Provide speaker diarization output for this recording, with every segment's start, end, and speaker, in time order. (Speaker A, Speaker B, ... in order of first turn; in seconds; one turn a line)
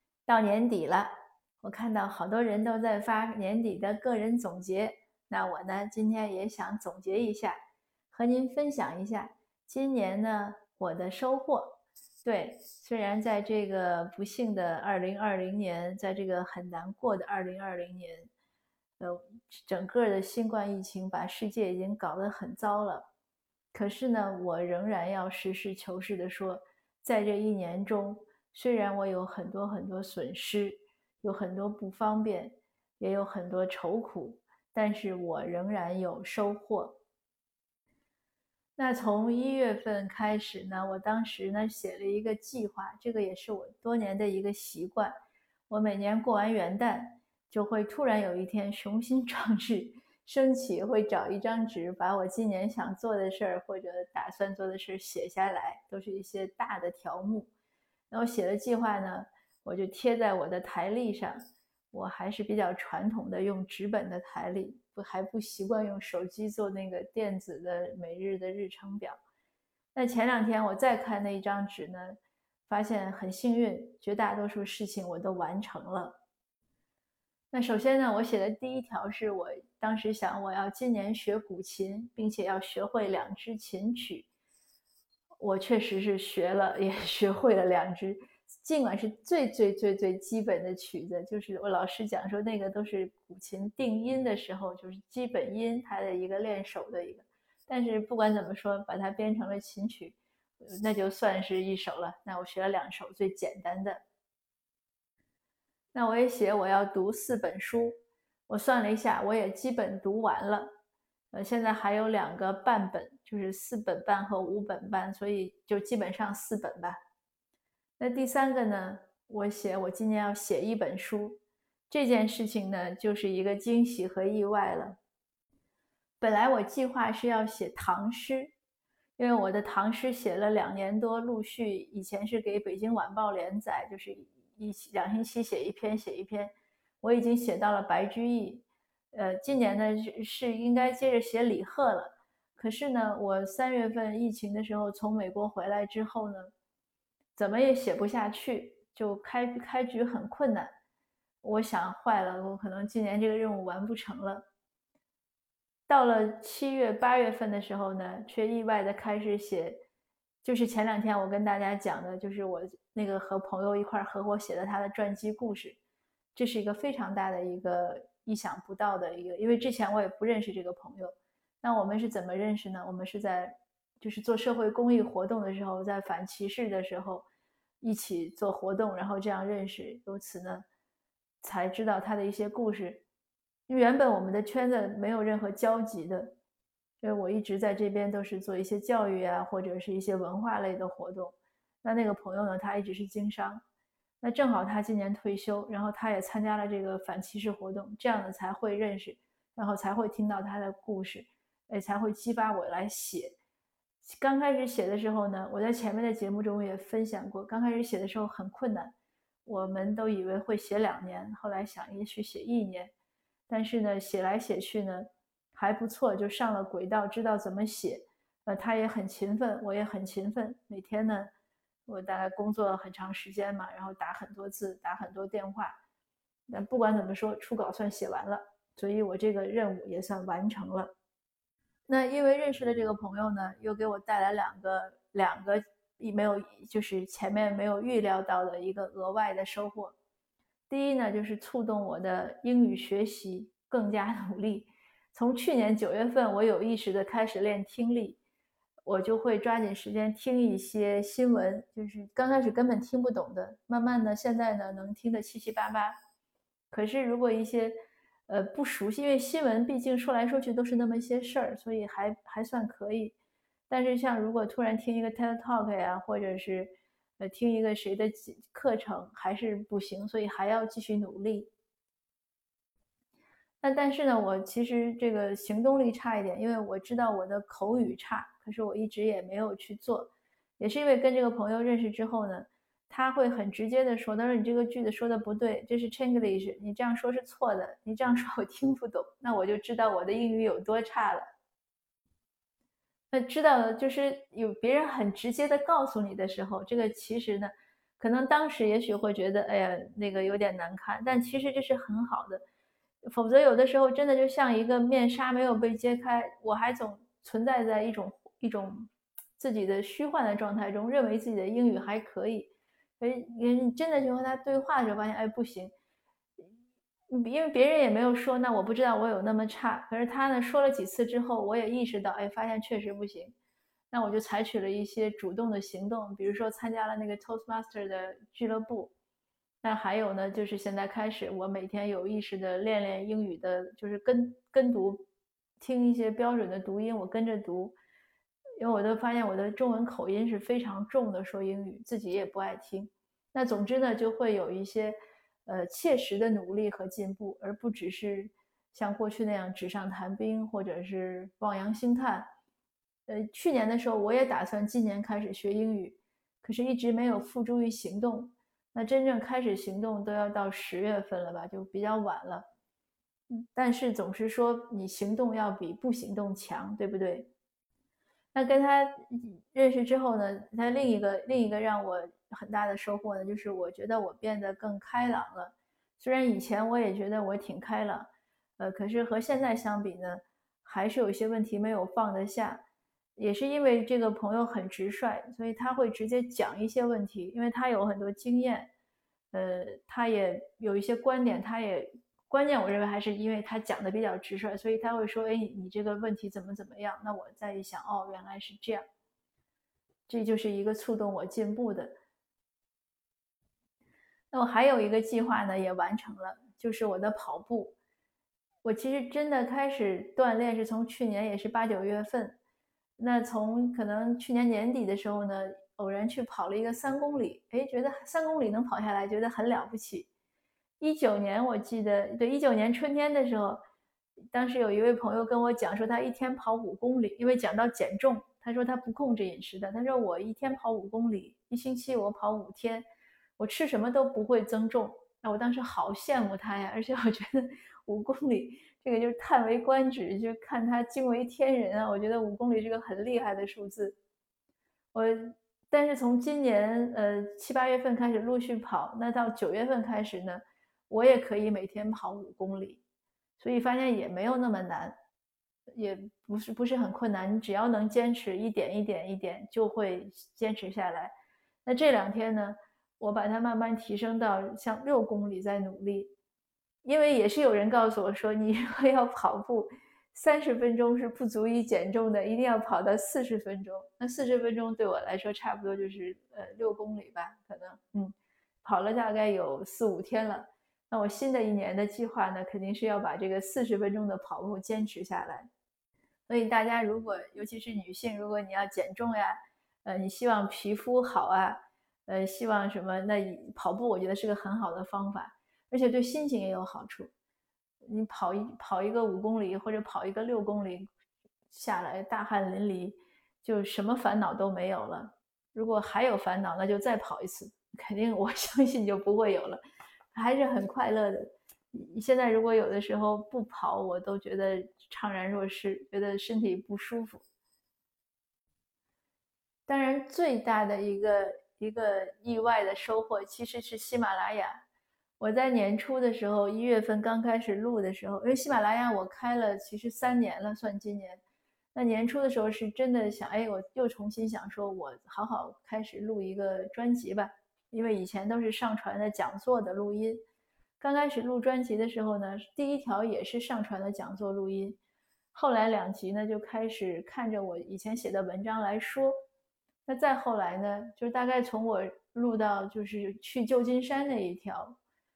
Speaker A: 0.3-7.6
Speaker A: 8.1-18.3
Speaker A: 19.0-23.1
Speaker A: 23.7-37.0
Speaker A: 38.8-45.1
Speaker A: 45.7-57.5
Speaker A: 58.1-61.4
Speaker A: 61.9-69.2
Speaker A: 70.0-72.2
Speaker A: 72.7-76.2
Speaker A: 77.5-84.3
Speaker A: 85.4-104.0
Speaker A: 105.9-107.9
Speaker A: 108.5-110.7
Speaker A: 111.3-117.0
Speaker A: 118.0-121.4
Speaker A: 121.9-125.0
Speaker A: 126.2-128.5
Speaker A: 129.2-146.5
Speaker A: 147.4-150.7
Speaker A: 151.4-154.4
Speaker A: 155.9-159.8
Speaker A: 160.4-165.8
Speaker A: 166.3-177.3
Speaker A: 177.8-180.7
Speaker A: 181.4-183.0
Speaker A: 183.7-186.4
Speaker A: 187.0-193.6
Speaker A: 194.2-203.4
Speaker A: 204.0-208.9
Speaker A: 209.5-212.9
Speaker A: 213.5-221.3
Speaker A: 221.9-225.8
Speaker A: 226.5-230.9
Speaker A: 231.9-239.9
Speaker A: 240.7-248.2
Speaker A: 248.9-256.0
Speaker A: 256.7-257.8
Speaker A: 258.3-263.2
Speaker A: 263.7-271.5
Speaker A: 273.6-291.3
Speaker A: 293.1-302.4
Speaker A: 303.1-315.7
Speaker A: 317.1-323.3
Speaker A: 323.9-328.9
Speaker A: 329.6-335.1
Speaker A: 335.6-337.8
Speaker A: 338.6-352.3
Speaker A: 353.1-362.5
Speaker A: 363.3-367.3
Speaker A: 368.3-382.6
Speaker A: 383.2-388.7
Speaker A: 389.3-398.8
Speaker A: 400.1-402.0
Speaker A: 404.3-407.8
Speaker A: 408.6-412.4
Speaker A: 413.0-420.1
Speaker A: 420.8-423.6
Speaker A: 424.3-432.9
Speaker A: 433.4-444.0
Speaker A: 444.9-452.8
Speaker A: 453.4-454.9
Speaker A: 455.7-461.1
Speaker A: 461.7-466.1
Speaker A: 466.8-485.5
Speaker A: 486.3-497.1
Speaker A: 497.8-500.9
Speaker A: 501.5-509.6
Speaker A: 510.1-517.2
Speaker A: 519.7-524.6
Speaker A: 525.2-531.2
Speaker A: 531.8-540.2
Speaker A: 540.8-544.8
Speaker A: 545.3-549.1
Speaker A: 549.9-554.8